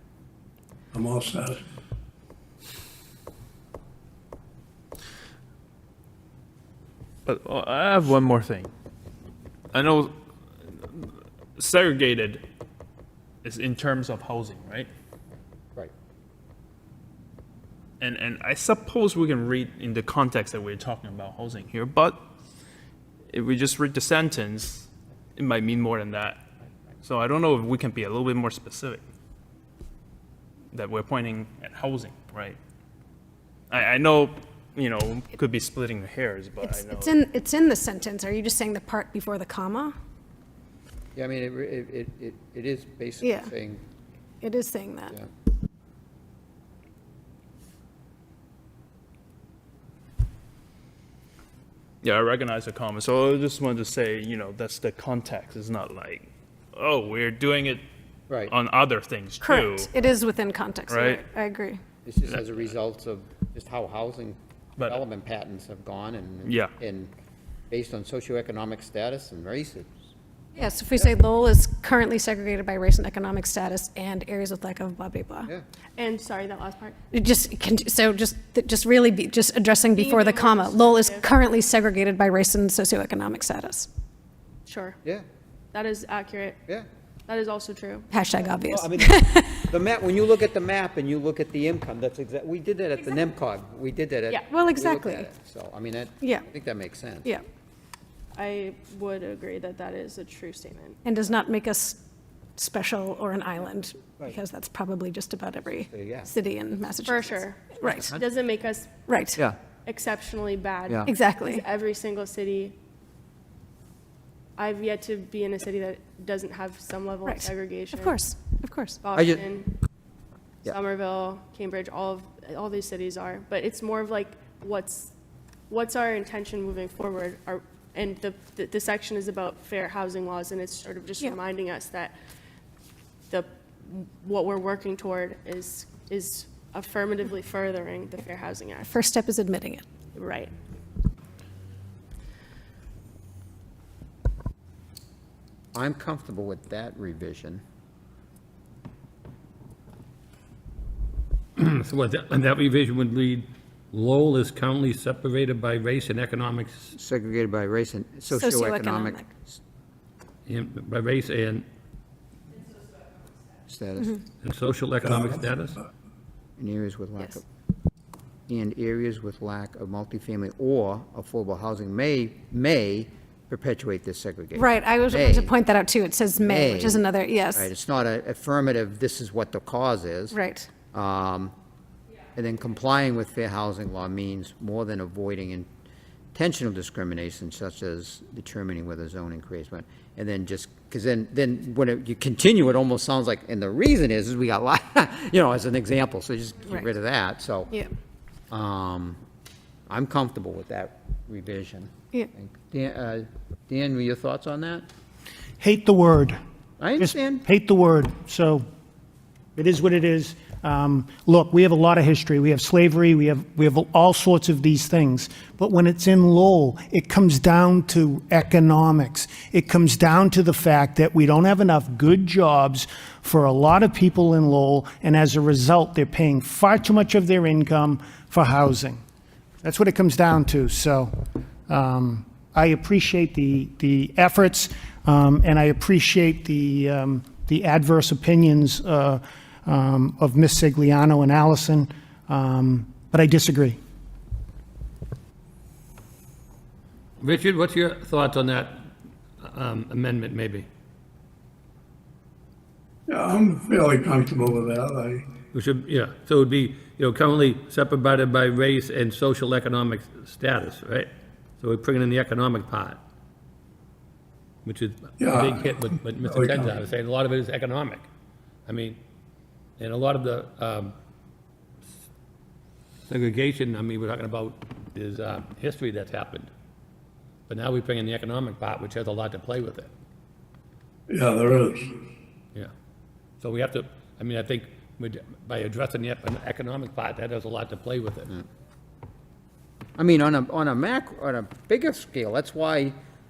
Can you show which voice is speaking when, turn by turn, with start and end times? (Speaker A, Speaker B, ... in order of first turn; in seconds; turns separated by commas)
Speaker A: 0.9-1.6, Speaker B: 7.2-8.7, Speaker B: 9.7-10.1, Speaker B: 10.8-12.4, Speaker B: 13.4-14.9, Speaker B: 18.0-22.2, Speaker B: 23.3-26.4, Speaker B: 27.0-29.0, Speaker B: 30.7-32.6, Speaker B: 33.7-37.3, Speaker C: 36.6-39.9, Speaker D: 41.1-43.8, Speaker C: 43.2-43.5, Speaker C: 44.4-45.1, Speaker B: 52.0-57.8, Speaker D: 58.3-58.5, Speaker B: 58.5-59.9, Speaker C: 59.4-61.8, Speaker B: 60.9-61.3, Speaker D: 62.0-67.1, Speaker B: 66.5-66.7, Speaker D: 67.7-69.9, Speaker C: 70.6-75.5, Speaker D: 70.6-71.1, Speaker E: 76.0-77.0, Speaker C: 77.1-83.9, Speaker E: 80.0-81.2, Speaker E: 85.7-86.6, Speaker E: 87.3-88.0, Speaker C: 88.1-89.7, Speaker D: 88.4-97.3, Speaker C: 94.5-95.3, Speaker E: 98.4-100.9, Speaker C: 101.0-102.0, Speaker C: 102.6-108.1, Speaker D: 105.9-106.3, Speaker E: 107.1-107.6, Speaker D: 107.8-108.2, Speaker E: 108.5-108.9, Speaker C: 109.1-109.4, Speaker E: 109.9-112.7, Speaker C: 111.0-111.7, Speaker E: 114.6-118.0, Speaker C: 117.2-119.0, Speaker E: 119.1-119.6, Speaker D: 119.2-119.5, Speaker E: 121.0-125.1, Speaker E: 125.7-132.1, Speaker E: 133.3-138.8, Speaker C: 138.8-139.8, Speaker D: 145.7-147.6, Speaker F: 151.6-156.9, Speaker D: 156.9-159.6, Speaker C: 158.3-159.3, Speaker F: 160.5-161.6, Speaker D: 163.7-164.2, Speaker F: 164.4-165.8, Speaker A: 165.0-165.4, Speaker D: 166.6-167.4, Speaker D: 168.5-175.5, Speaker C: 174.6-177.7, Speaker D: 176.4-180.4, Speaker C: 180.3-180.7, Speaker D: 180.9-181.5, Speaker D: 182.3-185.7, Speaker D: 186.3-197.7, Speaker D: 198.5-199.2, Speaker D: 199.9-204.8, Speaker G: 205.6-206.4, Speaker D: 206.8-207.4, Speaker G: 207.0-208.7, Speaker G: 209.6-229.0, Speaker G: 229.6-231.1, Speaker G: 231.7-243.8, Speaker F: 247.2-248.9, Speaker F: 249.4-250.7, Speaker A: 253.1-255.3, Speaker F: 255.5-263.0, Speaker F: 264.6-268.1, Speaker A: 265.2-266.8, Speaker F: 268.7-269.0, Speaker F: 269.8-270.9, Speaker F: 273.1-276.5, Speaker F: 277.5-279.9, Speaker A: 281.1-282.0, Speaker F: 283.4-288.3, Speaker D: 290.0-293.0